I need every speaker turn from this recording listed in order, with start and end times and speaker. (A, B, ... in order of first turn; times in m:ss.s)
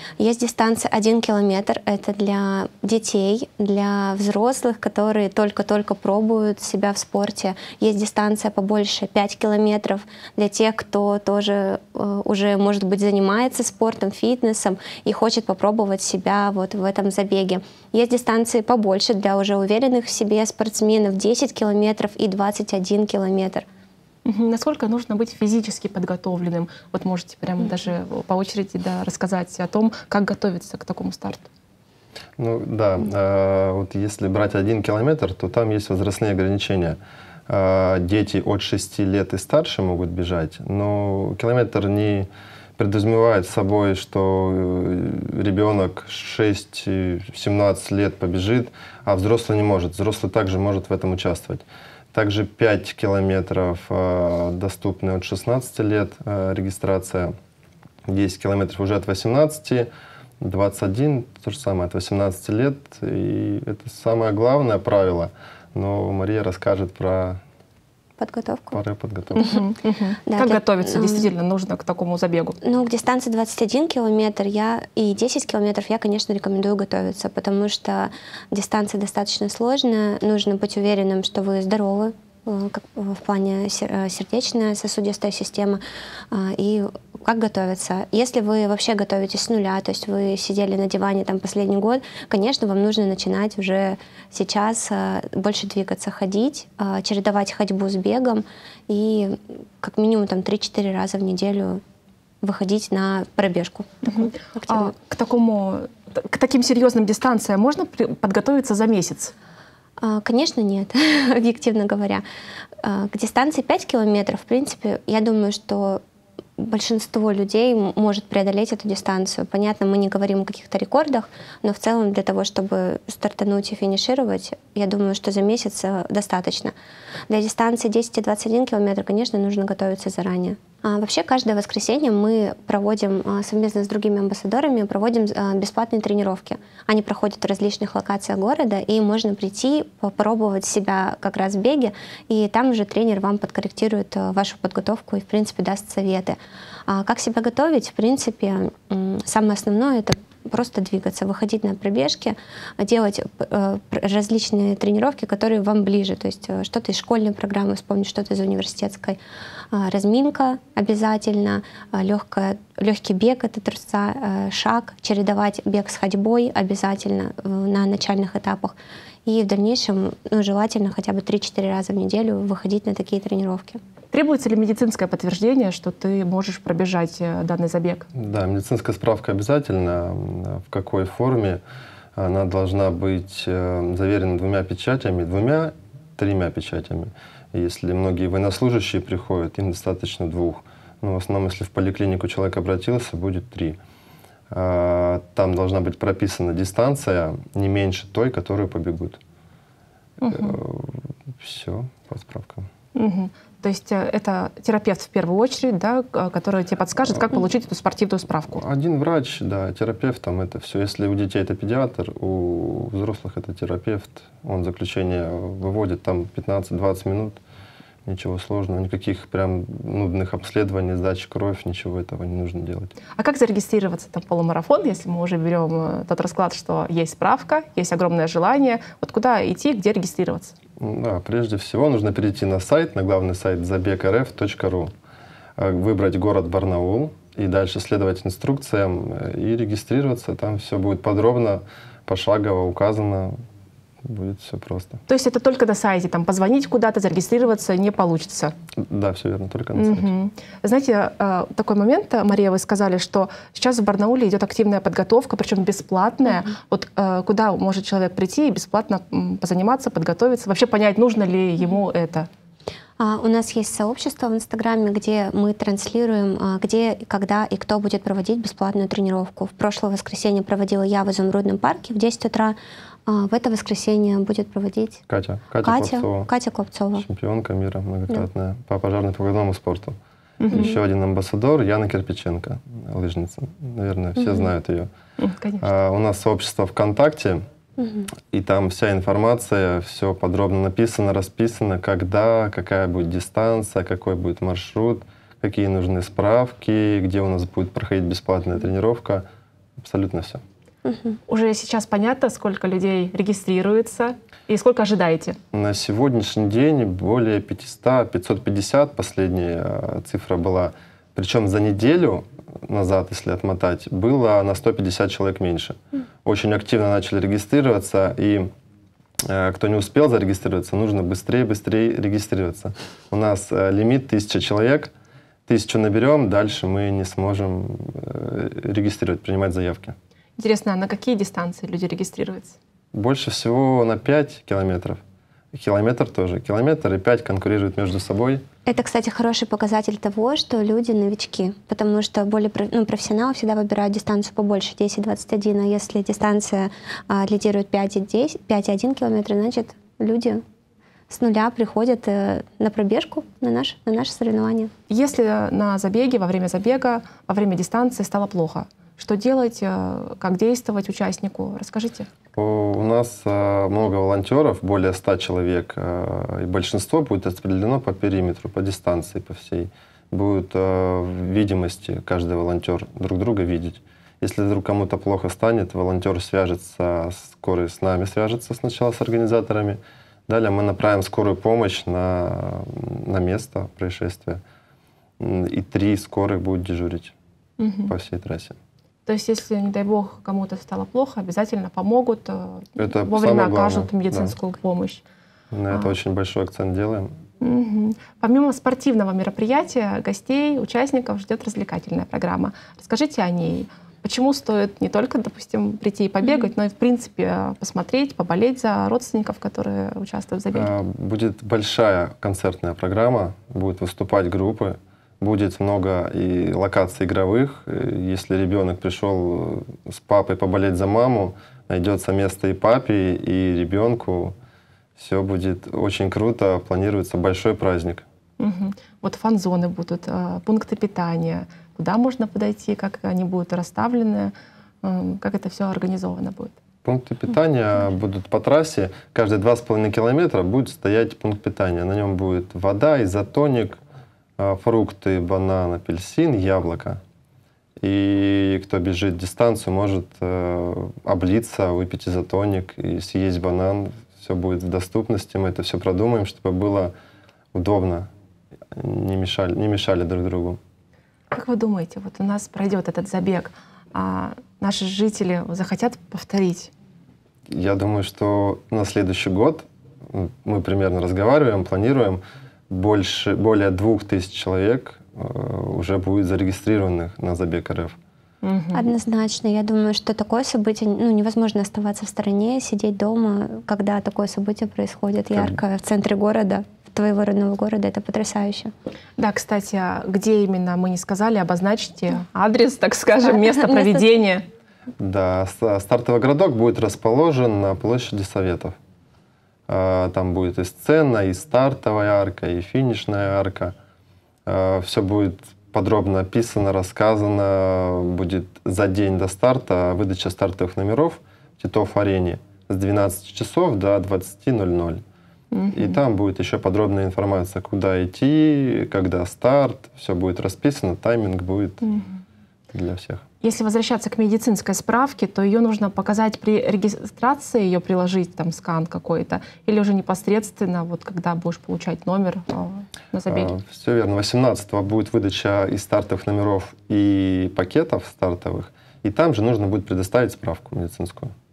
0:00.2-0:23.6 A
0:24.2-0:31.5 B
0:32.4-0:57.3 C
0:58.1-0:59.9 C
1:00.4-1:07.4 C
1:08.2-1:08.8 A
1:08.7-1:09.4 C
1:09.3-1:12.6 B
1:10.3-1:11.3 A
1:12.6-1:25.8 A
1:26.3-1:41.8 A
1:42.4-1:43.9 A
1:44.0-1:49.3 B
1:44.6-1:44.9 A
1:50.0-1:52.2 A
1:52.8-1:56.0 A
1:56.6-2:06.7 A
2:07.3-2:26.4 A
2:26.9-2:39.2 A
2:39.7-2:48.7 A
2:49.2-2:53.8 A
2:54.1-2:58.1 B
2:58.1-3:01.6 C
3:02.2-3:13.8 C
3:14.5-3:19.2 C
3:20.2-3:20.6 B
3:20.3-3:22.7 C
3:22.9-3:28.6 B
3:28.6-3:37.4 C
3:38.0-3:42.9 C
3:43.1-3:50.5 B
3:50.8-3:54.9 C
3:55.6-4:03.3 C
4:04.0-4:05.0 C
4:05.1-4:08.5 B
4:08.8-4:10.1 C
4:09.7-4:22.3 B
4:23.0-4:35.0 A
4:35.1-4:36.3 C
4:35.6-4:37.0 A
4:36.9-4:40.0 C
4:40.4-4:40.8 B
4:40.5-4:44.9 C
4:44.2-4:44.4 A
4:45.2-4:45.6 B
4:45.6-4:47.4 C
4:47.8-4:48.1 A
4:48.3-4:59.2 C
4:59.8-5:00.4 C
5:00.8-5:01.2 A
5:01.3-5:05.4 B
5:05.5-5:18.5 C
5:19.3-5:24.9 C
5:25.5-5:30.0 C
5:30.4-5:32.6 B
5:32.9-5:35.0 C
5:35.5-5:38.4 C
5:38.6-5:50.4 A
5:51.1-5:54.7 A
5:54.9-6:02.1 B
6:02.3-6:24.4 C
6:25.2-6:27.1 C
6:27.6-6:27.9 B
6:27.9-6:28.6 C
6:29.0-6:35.0 B
6:32.8-6:34.3 C
6:35.5-6:37.1 C
6:37.4-6:50.7 B
6:50.5-7:04.3 C
7:05.0-7:08.0 C
7:08.4-7:16.6 B
7:16.8-7:23.8 C
7:24.4-7:27.0 C
7:27.8-7:36.9 C
7:37.5-7:38.1 C
7:38.7-7:40.6 C
7:41.3-7:46.7 B
7:47.5-7:58.0 C
7:58.4-7:58.8 B
7:58.7-8:08.7 A
8:09.2-8:14.4 B
8:15.0-8:18.7 C
8:19.7-8:23.7 C
8:24.4-8:35.0 C
8:35.5-8:36.0 B
8:35.7-8:41.8 C
8:41.8-8:42.2 B
8:42.7-8:43.2 C
8:43.4-8:53.6 B
8:53.3-9:01.3 C